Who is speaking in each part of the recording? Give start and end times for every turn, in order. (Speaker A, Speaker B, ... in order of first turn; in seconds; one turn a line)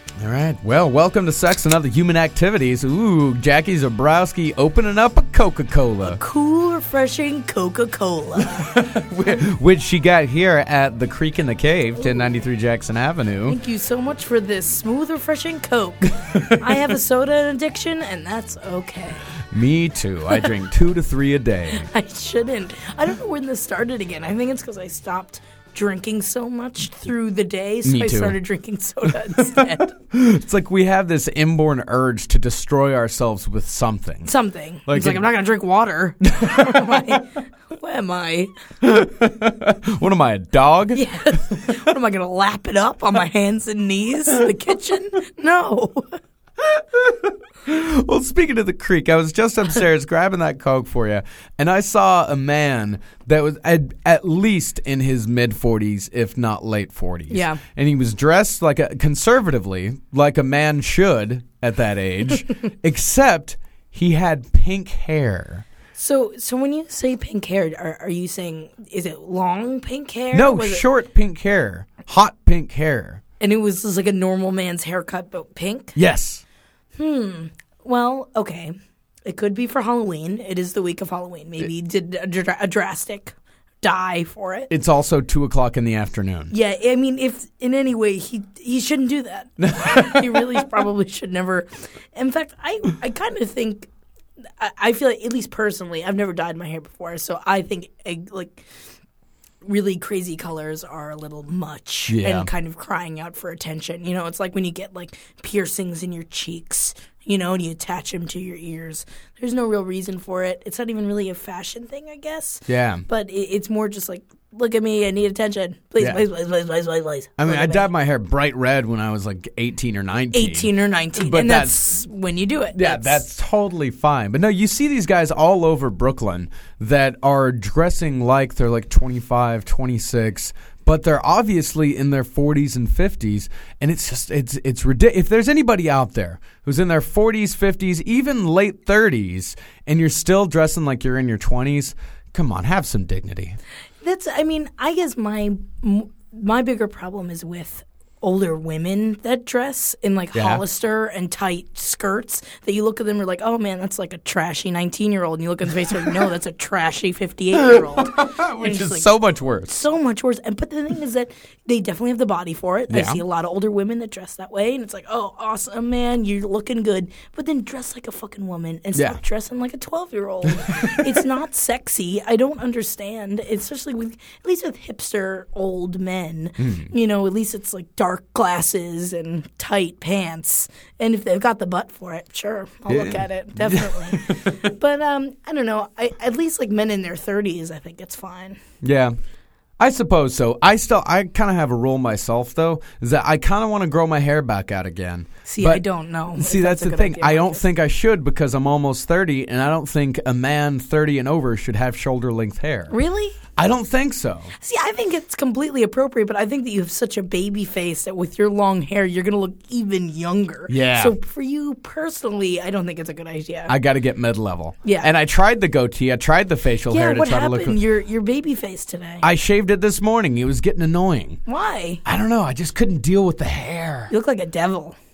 Speaker A: 0.2-6.2
Speaker B: 6.0-8.8
Speaker A: 8.4-13.6
Speaker B: 13.5-19.2
Speaker A: 16.2-16.9
Speaker A: 19.5-21.9
Speaker B: 21.7-29.9
Speaker A: 27.8-28.4
Speaker A: 29.6-34.3
Speaker B: 34.3-38.5
Speaker A: 34.9-35.2
Speaker A: 36.3-37.1
Speaker A: 38.8-41.8
Speaker B: 40.9-46.2
Speaker A: 46.6-65.7
Speaker B: 57.3-57.6
Speaker B: 66.0-70.8
Speaker A: 70.3-73.2
Speaker B: 73.4-76.0
Speaker A: 76.0-76.4
Speaker B: 77.0-78.7
Speaker B: 79.3-84.7
Speaker A: 84.7-86.5
Speaker B: 86.5-93.9
Speaker A: 89.6-90.7
Speaker B: 94.6-98.7
Speaker B: 99.6-117.9
Speaker A: 102.1-102.5
Speaker A: 112.7-113.0
Speaker A: 117.4-121.8
Speaker B: 120.3-123.3
Speaker A: 122.8-143.6
Speaker B: 144.0-159.1
Speaker A: 150.3-150.6
Speaker A: 157.6-159.7
Speaker B: 159.7-188.6
Speaker A: 162.9-163.2
Speaker A: 170.5-171.1
Speaker A: 176.6-176.9
Speaker A: 182.9-184.6
Speaker A: 188.8-189.2
Speaker A: 189.8-202.9
Speaker B: 195.5-197.6
Speaker B: 202.9-203.4
Speaker A: 203.6-204.5
Speaker B: 204.6-213.7
Speaker A: 210.7-211.2
Speaker A: 213.7-217.8
Speaker B: 214.8-215.1
Speaker B: 216.9-219.2
Speaker A: 219.2-221.4
Speaker B: 221.5-222.0
Speaker A: 222.1-224.1
Speaker B: 224.1-225.0